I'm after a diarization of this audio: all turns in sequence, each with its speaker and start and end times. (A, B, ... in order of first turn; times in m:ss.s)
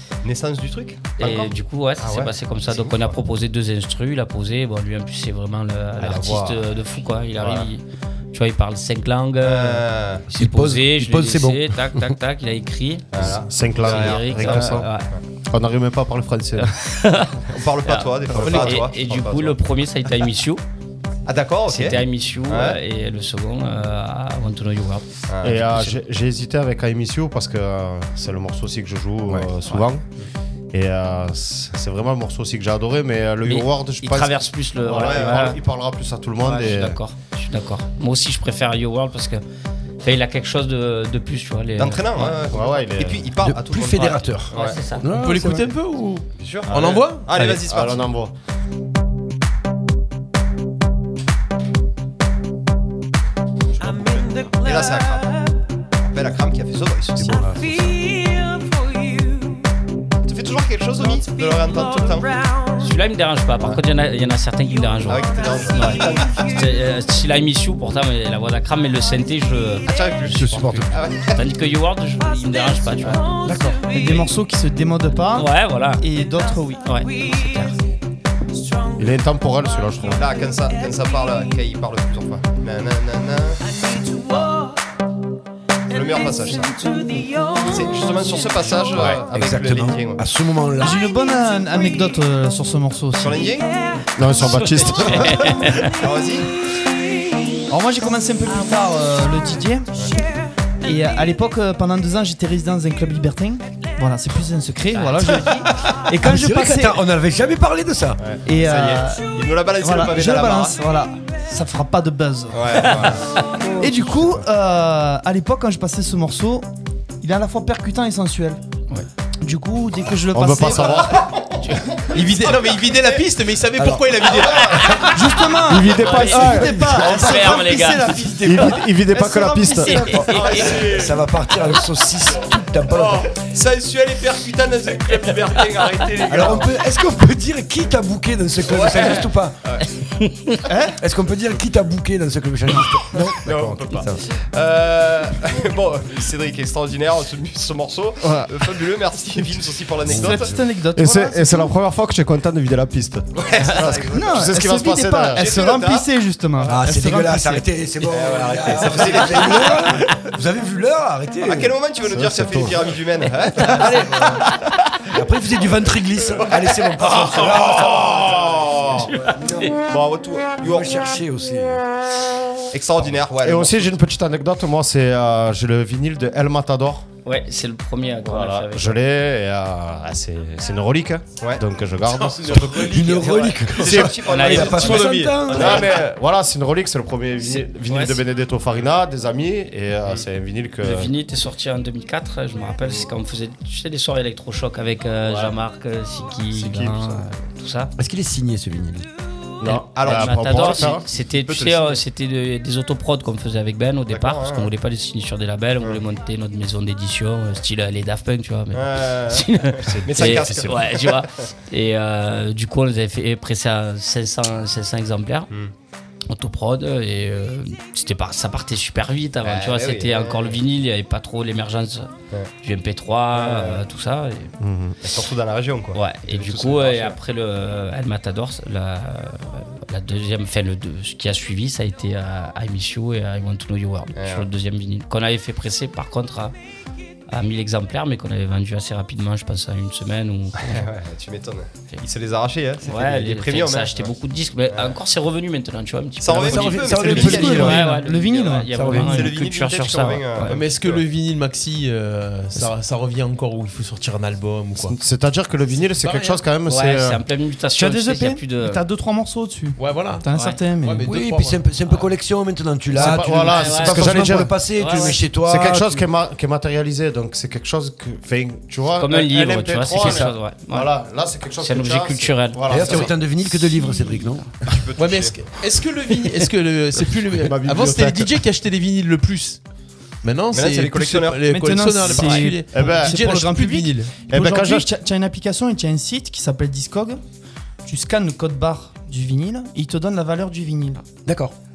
0:00.2-0:03.1 A
0:01.2-0:15.1 B
0:06.0-0:06.6 A
0:07.4-0:07.7 A
0:09.4-0:10.2 A
0:10.3-0:12.0 C
0:13.1-0:15.2 A
0:13.2-0:14.9 D
0:15.5-0:16.7 D
0:16.6-0:20.6 B
0:17.5-0:19.6 A
0:18.4-0:18.9 E
0:21.2-0:22.8 A
0:21.7-0:26.0 B
0:25.3-0:25.6 A
0:25.4-0:30.0 D
0:30.7-0:37.0 D
0:33.4-0:35.6 B
0:34.9-0:35.5 A
0:36.4-0:39.4 B
0:40.0-0:42.4 B
0:41.8-0:44.8 A
0:42.5-0:43.3 D
0:43.4-0:45.7 C
0:44.5-0:45.0 B
0:45.1-0:47.6 E
0:46.4-0:48.1 A
0:46.7-0:48.3 D
0:53.8-0:55.7 F
0:54.6-0:55.3 A
0:56.0-0:57.4 A
0:57.2-0:57.8 C
0:57.2-0:59.8 F
1:00.2-1:02.3 A
1:01.0-1:03.0 F
1:02.8-1:13.4 B
1:04.4-1:07.3 F
1:05.1-1:06.4 A
1:08.9-1:10.3 F
1:09.9-1:11.5 A
1:10.2-1:11.0 C
1:11.5-1:14.5 F
1:13.4-1:17.5 G
1:15.3-1:16.0 B
1:16.0-1:21.7 F
1:16.8-1:17.7 B
1:19.0-1:20.3 D
1:20.1-1:23.6 A
1:23.6-1:24.8 F
1:25.9-1:28.9 F
1:25.9-1:26.8 A
1:27.6-1:30.2 A
1:29.0-1:31.0 C
1:30.8-1:33.5 G
1:31.3-1:32.1 F
1:33.2-1:33.6 A
1:33.4-1:35.0 F
1:34.1-1:35.8 D
1:34.4-1:36.0 B
1:35.8-1:36.5 A
1:37.0-1:37.6 F
1:37.7-1:39.9 G
1:38.5-1:41.3 F
1:39.9-1:40.2 A
1:40.8-1:47.1 G
1:46.2-1:48.2 C
1:48.2-1:50.8 A
1:48.4-1:53.2 G
1:49.0-1:49.5 F
1:52.5-1:53.2 A
1:53.3-1:53.8 F
1:53.8-1:56.7 G
1:57.2-1:58.6 G
1:59.4-2:01.1 G
2:00.3-2:01.3 D
2:01.6-2:01.9 B
2:02.1-2:05.2 E
2:03.8-2:04.1 C
2:05.1-2:10.9 G
2:05.7-2:07.5 D
2:05.9-2:08.4 B
2:06.5-2:07.3 C
2:08.1-2:08.6 C
2:08.4-2:10.6 D
2:09.8-2:10.8 B
2:10.3-2:11.2 A
2:10.5-2:13.3 C
2:12.9-2:16.8 A
2:16.2-2:19.6 C
2:18.6-2:19.9 A
2:20.2-2:20.6 B
2:20.7-2:21.0 G
2:21.0-2:24.1 C
2:23.4-2:30.5 A
2:30.0-2:30.6 C
2:30.1-2:31.7 G
2:30.9-2:35.4 D
2:33.4-2:34.5 A
2:34.1-2:37.7 G
2:35.3-2:36.1 A
2:36.7-2:41.8 C
2:38.0-2:40.2 A
2:41.4-2:44.5 A
2:42.1-2:42.9 D
2:43.7-2:44.4 C
2:45.1-2:49.7 C
2:46.5-2:49.1 A
2:49.0-2:49.7 B
2:49.6-2:51.0 A
2:50.6-2:51.8 C
2:52.7-2:53.9 A
2:53.4-2:57.0 D
2:57.2-2:59.0 B
2:58.2-3:03.1 D
3:02.0-3:05.1 E
3:02.8-3:05.9 C
3:03.2-3:05.8 A
3:04.2-3:05.8 B
3:05.5-3:11.1 D
3:07.9-3:08.2 B
3:10.8-3:17.9 B
3:15.2-3:15.5 D
3:18.0-3:19.1 C
3:19.6-3:21.0 D
3:19.7-3:22.0 A
3:19.7-3:35.5 B
3:24.1-3:24.7 A
3:28.7-3:31.3 A
3:29.8-3:30.8 D
3:36.3-3:42.1 B
3:39.4-3:40.6 A
3:42.6-3:44.5 B
3:43.3-3:43.8 A
3:44.6-3:45.0 D
3:45.0-3:47.2 A
3:45.9-3:56.5 B
3:54.2-3:54.5 A
3:57.3-4:00.9 B
4:00.6-4:04.1 A
4:02.8-4:10.4 B
4:04.7-4:05.0 A
4:06.2-4:07.9 A
4:06.3-4:08.0 C
4:07.2-4:09.3 G
4:08.7-4:09.3 C
4:09.0-4:11.0 A
4:10.4-4:15.0 E
4:14.8-4:17.2 D
4:16.0-4:16.4 E
4:16.7-4:18.8 B
4:17.7-4:21.2 G
4:19.8-4:20.2 E
4:20.3-4:20.6 B
4:20.8-4:21.6 E
4:21.0-4:26.0 C
4:22.9-4:24.8 D
4:23.1-4:24.2 B
4:24.7-4:25.2 B
4:25.3-4:33.1 D
4:29.0-4:30.9 B
4:31.6-4:33.0 B
4:32.7-4:34.5 C
4:34.6-4:35.4 A
4:35.0-4:39.6 E
4:37.3-4:38.4 D
4:40.2-4:44.1 E
4:40.5-4:41.4 A
4:41.5-4:47.2 G
4:42.7-4:43.2 D
4:44.3-4:44.9 D
4:47.8-4:51.0 G
4:51.2-4:51.5 C